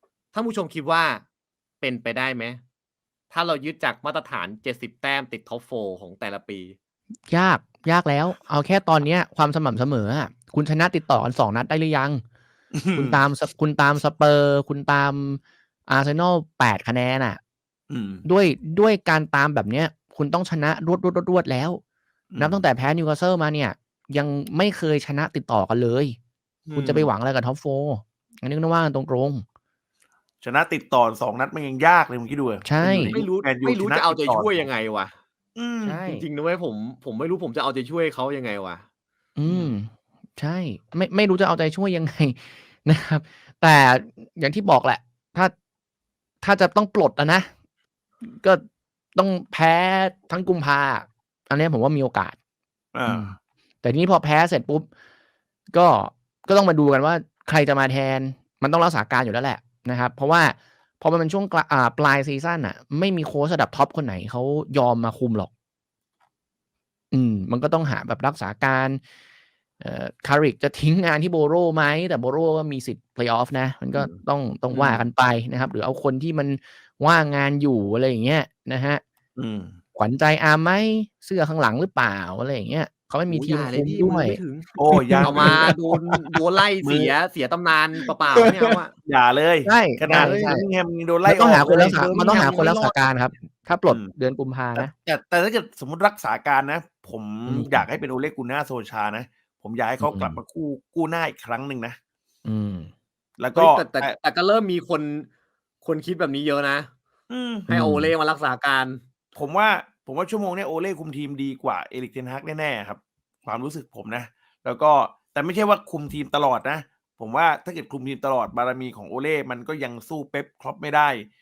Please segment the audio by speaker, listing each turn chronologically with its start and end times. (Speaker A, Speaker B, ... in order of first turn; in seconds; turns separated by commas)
Speaker A: 0.3-1.2, Speaker A: 1.8-2.6, Speaker A: 3.3-6.8, Speaker B: 7.3-12.2, Speaker C: 12.7-13.2, Speaker B: 12.9-17.4, Speaker C: 17.9-18.2, Speaker B: 18.2-21.8, Speaker C: 22.3-22.6, Speaker B: 22.4-26.2, Speaker A: 26.7-27.1, Speaker B: 26.8-29.4, Speaker C: 30.4-34.7, Speaker B: 32.6-33.1, Speaker A: 33.0-35.1, Speaker C: 35.6-36.0, Speaker B: 35.8-36.3, Speaker A: 36.0-38.8, Speaker B: 39.4-45.5, Speaker C: 39.5-39.8, Speaker B: 46.4-47.5, Speaker B: 48.2-48.6, Speaker B: 49.1-52.4, Speaker C: 53.0-53.4, Speaker B: 53.0-54.9, Speaker B: 55.7-65.5, Speaker B: 67.1-69.0, Speaker B: 69.8-79.0, Speaker C: 74.0-75.0, Speaker C: 79.4-79.8, Speaker B: 80.0-85.8, Speaker A: 83.3-84.7, Speaker C: 84.8-85.7, Speaker A: 85.2-88.9, Speaker C: 86.8-87.2, Speaker C: 89.0-93.0, Speaker B: 89.7-90.7, Speaker A: 90.1-90.6, Speaker B: 91.2-94.9, Speaker C: 93.9-94.1, Speaker C: 94.8-102.0, Speaker B: 97.5-97.9, Speaker B: 100.0-100.4, Speaker B: 102.5-102.9, Speaker C: 103.4-104.2, Speaker A: 103.5-105.3, Speaker A: 105.8-106.9, Speaker C: 107.3-107.7, Speaker A: 107.7-109.0, Speaker B: 107.7-108.1, Speaker C: 109.3-121.3